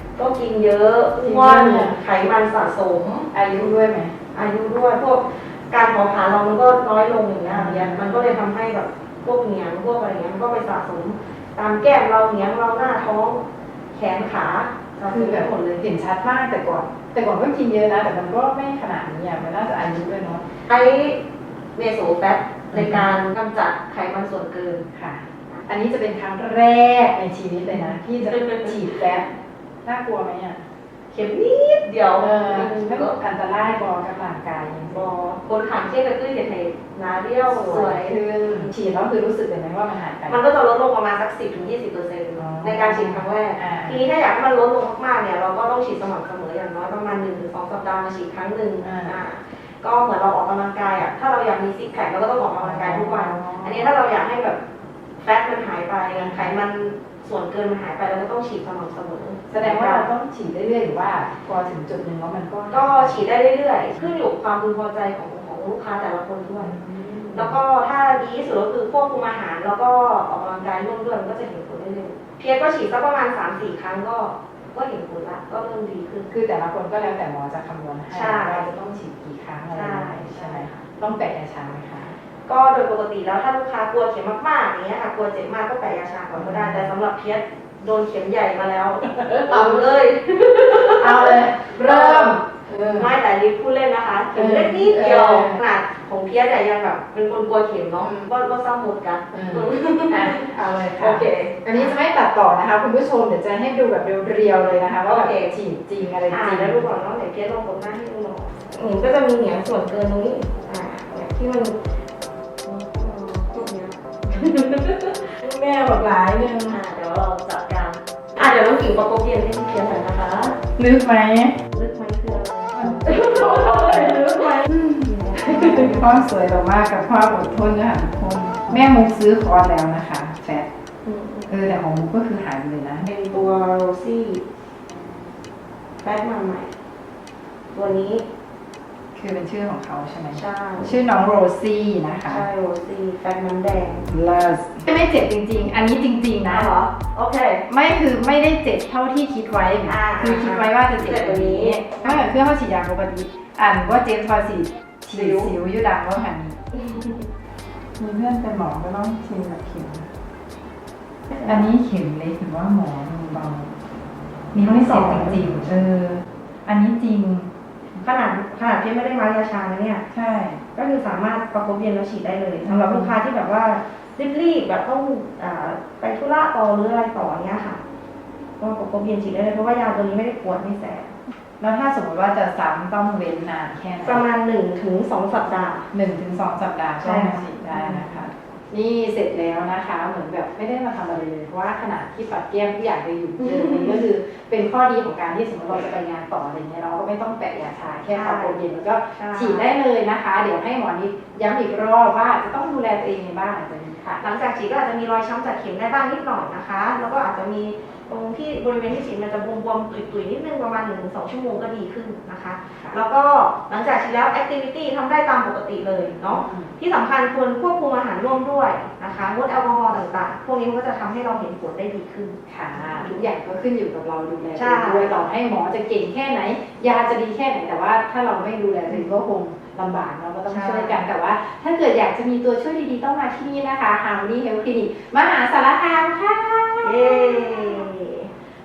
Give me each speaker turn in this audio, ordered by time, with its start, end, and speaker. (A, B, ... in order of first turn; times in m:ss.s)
0:00.2-0:03.3 A
0:01.2-0:02.0 B
0:03.3-0:04.1 B
0:04.3-0:15.5 A
0:07.5-0:08.4 B
0:15.1-0:20.4 B
0:20.7-0:21.2 A
0:21.7-0:24.8 A
0:22.7-0:23.1 B
0:24.9-0:29.3 B
0:27.7-0:29.0 A
0:29.8-0:35.1 B
0:31.8-0:33.1 A
0:34.9-0:38.8 A
0:37.5-0:40.4 B
0:40.3-0:54.6 A
0:42.4-0:44.0 B
0:48.8-0:49.1 B
0:52.5-0:53.9 B
0:55.2-1:00.1 A
0:56.1-0:56.6 B
0:59.5-1:03.2 B
1:02.7-1:06.8 A
1:06.6-1:07.6 B
1:07.3-1:16.3 A
1:16.3-1:22.1 B
1:18.1-1:18.7 A
1:19.7-1:20.8 A
1:22.4-1:42.0 A
1:26.3-1:26.9 B
1:29.0-1:29.8 B
1:30.8-1:33.1 B
1:34.3-1:35.6 B
1:38.0-1:38.3 B
1:39.3-1:46.9 B
1:45.0-1:45.5 A
1:46.3-1:51.8 A
1:52.6-1:55.3 A
1:55.3-1:56.8 B
1:56.7-2:00.6 A
2:00.8-2:01.6 B
2:01.7-2:06.2 A
2:02.7-2:10.7 B
2:11.0-2:11.5 A
2:11.5-2:13.1 B
2:13.0-2:14.4 A
2:16.0-2:16.7 A
2:17.7-2:18.2 A
2:19.1-2:22.4 B
2:20.3-2:21.0 A
2:22.2-2:24.1 A
2:24.1-2:26.7 B
2:26.5-2:27.6 A
2:27.7-2:36.6 B
2:29.8-2:32.2 A
2:35.1-2:35.5 A
2:36.7-2:37.3 A
2:38.0-2:40.1 B
2:41.4-2:43.7 B
2:44.5-2:47.5 B
2:44.6-2:45.4 A
2:47.9-2:50.0 A
2:50.1-2:50.6 B
2:50.7-2:57.8 A
2:52.6-2:53.2 B
2:58.6-3:01.1 A
3:01.6-3:04.2 B
3:04.0-3:05.9 A
3:05.9-3:24.2 B
3:07.0-3:08.2 A
3:18.1-3:18.6 A
3:19.2-3:19.6 A
3:24.2-3:43.2 A
3:36.3-3:36.7 B
3:42.5-3:57.9 B
3:44.5-3:45.2 A
3:50.5-3:51.0 A
3:56.8-3:58.3 A